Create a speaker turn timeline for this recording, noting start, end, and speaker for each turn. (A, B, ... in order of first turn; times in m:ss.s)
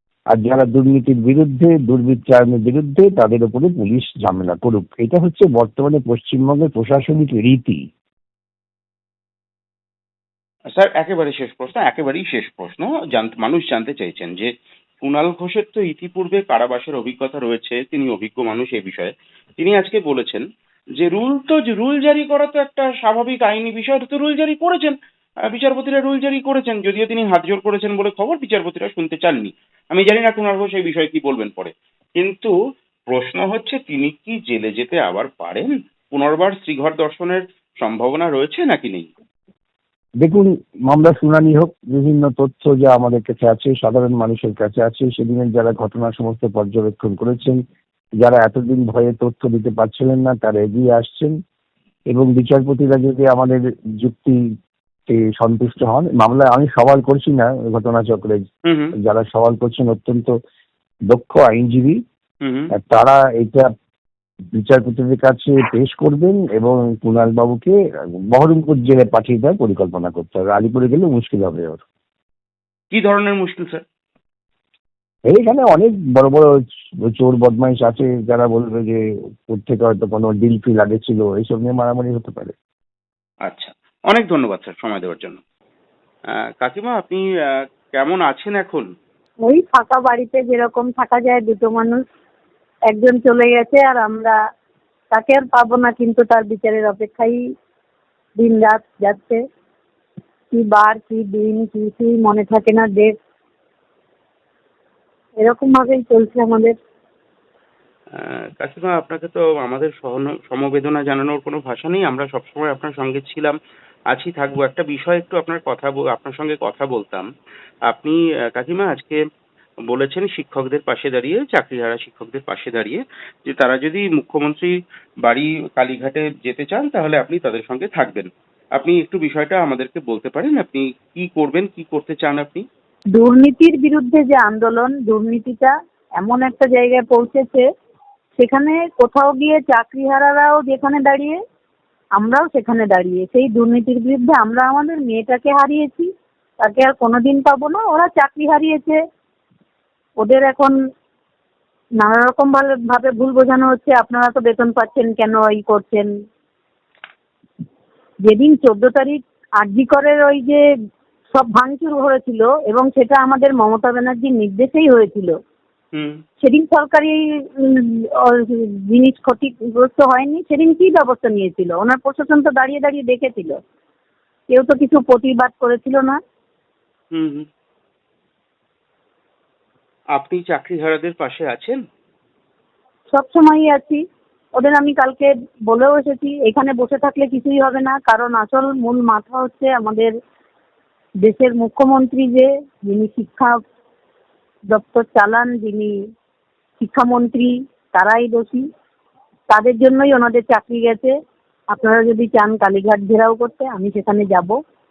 0:00.3-0:07.8 A
0:10.8-0:14.5 B
0:15.0-0:20.4 B
0:21.0-0:25.0 B
0:25.5-0:32.5 B
0:33.1-0:39.1 B
0:40.2-0:47.6 A
0:48.2-0:51.4 A
0:52.1-0:54.4 A
0:55.1-0:58.4 A
0:58.7-0:58.9 B
0:59.0-1:00.3 A
1:01.1-1:02.0 A
1:02.4-1:02.7 B
1:02.7-1:03.7 A
1:04.5-1:07.8 A
1:08.3-1:11.8 A
1:12.9-1:13.8 B
1:15.3-1:22.5 A
1:23.4-1:25.4 B
1:26.6-1:28.9 B
1:29.4-1:32.0 C
1:32.9-1:34.4 C
1:35.1-1:37.4 C
1:38.4-1:39.4 C
1:40.5-1:43.1 C
1:45.4-1:46.8 C
1:48.2-1:53.6 B
1:54.1-1:57.3 B
1:57.9-1:59.2 B
1:59.9-2:12.6 B
2:13.1-2:17.6 C
2:18.4-2:21.4 C
2:22.2-2:26.1 C
2:26.6-2:29.0 C
2:30.2-2:30.8 C
2:32.0-2:36.1 C
2:38.2-2:40.6 C
2:41.3-2:45.3 C
2:46.0-2:46.2 B
2:46.4-2:53.6 C
2:54.5-2:56.2 C
2:57.1-2:57.5 B
3:00.2-3:01.8 B
3:03.1-3:04.0 C
3:04.6-3:10.1 C
3:11.2-3:13.6 C
3:14.7-3:15.9 C
3:16.8-3:18.6 C
3:19.5-3:21.1 C
3:21.7-3:24.6 C